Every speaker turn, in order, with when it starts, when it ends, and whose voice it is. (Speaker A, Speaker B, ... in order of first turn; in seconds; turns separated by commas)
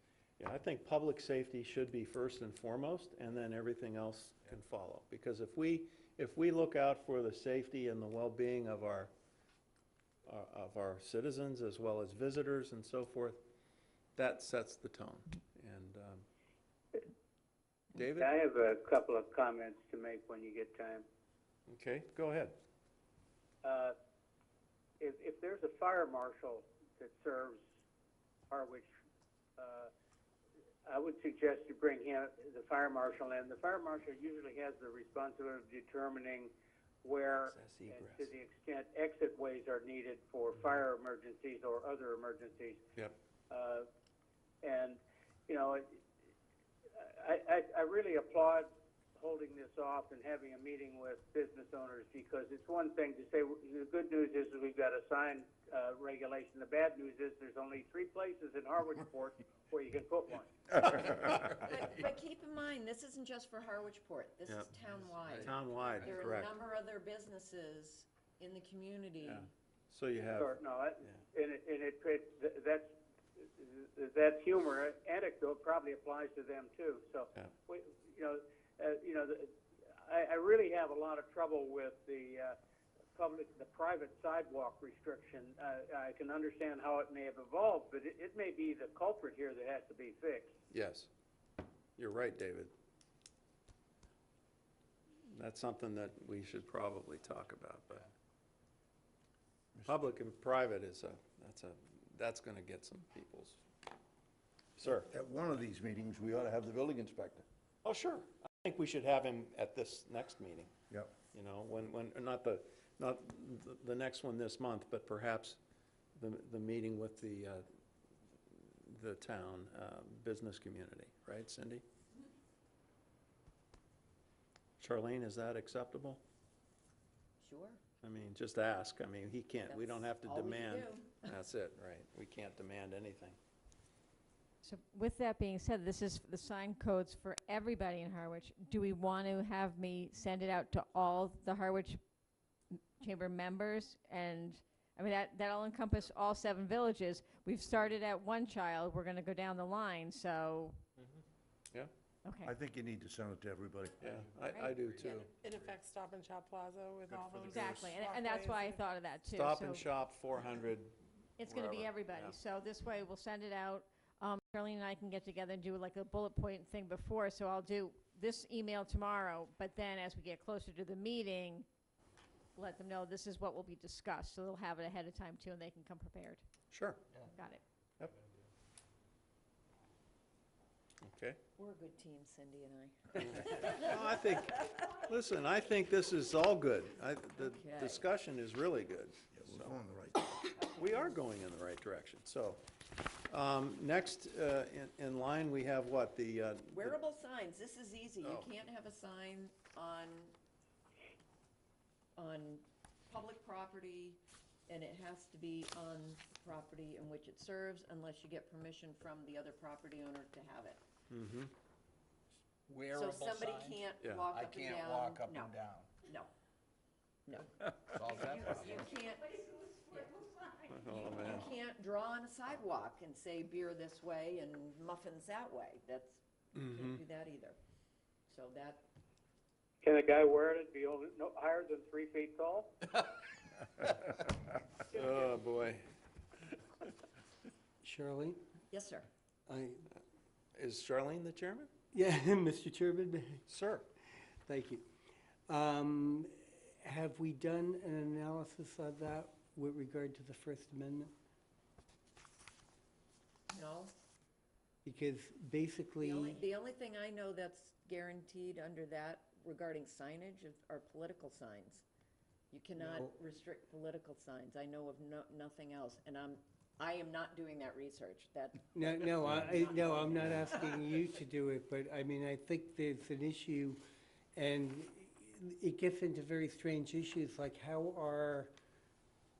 Speaker A: 0.4-9.1, Speaker A: 10.2-13.4, Speaker A: 14.2-16.2, Speaker A: 17.9-18.3, Speaker B: 18.1-21.0, Speaker A: 21.7-22.6, Speaker B: 23.6-23.9, Speaker B: 25.0-27.6, Speaker B: 28.5-28.9, Speaker B: 29.6-29.9, Speaker B: 30.9-36.5, Speaker B: 37.0-42.8, Speaker A: 37.4-38.3, Speaker B: 43.5-43.9, Speaker B: 44.6-46.0, Speaker B: 47.0-60.5, Speaker C: 60.8-69.5, Speaker A: 64.5-64.7, Speaker A: 65.3-66.5, Speaker A: 69.2-70.5, Speaker B: 70.3-72.9, Speaker B: 73.4-79.5, Speaker B: 80.0-82.5, Speaker B: 83.1-90.5, Speaker A: 90.7-91.1, Speaker A: 92.0-92.7, Speaker A: 95.3-98.1, Speaker D: 99.7-100.0, Speaker A: 99.8-103.6, Speaker A: 104.8-105.1, Speaker D: 104.8-107.5, Speaker A: 107.8-110.7, Speaker A: 111.3-115.6, Speaker A: 116.2-117.6, Speaker A: 118.5-121.8, Speaker A: 124.8-126.2, Speaker C: 127.4-127.8, Speaker A: 128.0-133.4, Speaker C: 129.7-131.3, Speaker E: 134.6-142.0, Speaker E: 142.7-150.8, Speaker E: 152.2-152.6, Speaker D: 152.4-154.2, Speaker A: 154.0-155.4, Speaker F: 155.2-158.8, Speaker A: 157.3-157.7, Speaker E: 157.4-159.9, Speaker D: 157.5-157.9, Speaker A: 159.3-162.3, Speaker E: 161.4-171.7, Speaker E: 172.6-176.4, Speaker A: 176.7-177.0, Speaker E: 177.3-177.6, Speaker A: 181.0-181.4, Speaker C: 181.6-184.1, Speaker A: 183.2-189.8, Speaker C: 187.4-188.1, Speaker D: 189.3-190.3, Speaker C: 190.5-191.1, Speaker A: 190.7-192.6, Speaker A: 193.3-197.0, Speaker C: 196.7-200.3, Speaker A: 198.2-198.5, Speaker C: 202.2-210.8, Speaker A: 211.1-211.5, Speaker G: 212.7-215.9, Speaker C: 212.9-215.5, Speaker A: 214.0-214.3, Speaker C: 216.0-216.3, Speaker C: 217.2-217.5, Speaker G: 217.9-218.9, Speaker C: 218.2-220.3, Speaker A: 220.7-221.5, Speaker C: 221.1-227.6, Speaker A: 226.5-227.0, Speaker C: 228.3-228.8, Speaker B: 229.8-232.7, Speaker A: 234.9-235.8, Speaker H: 237.8-238.4, Speaker C: 238.7-239.1, Speaker H: 239.5-239.8, Speaker A: 240.5-241.7, Speaker H: 241.9-243.4, Speaker A: 243.5-243.9, Speaker H: 244.4-244.8, Speaker H: 245.5-251.1, Speaker C: 253.5-253.9, Speaker H: 254.8-256.4, Speaker C: 256.0-261.8, Speaker C: 262.5-270.0, Speaker H: 262.8-263.1, Speaker H: 268.7-273.8, Speaker A: 269.2-269.5, Speaker H: 274.3-278.5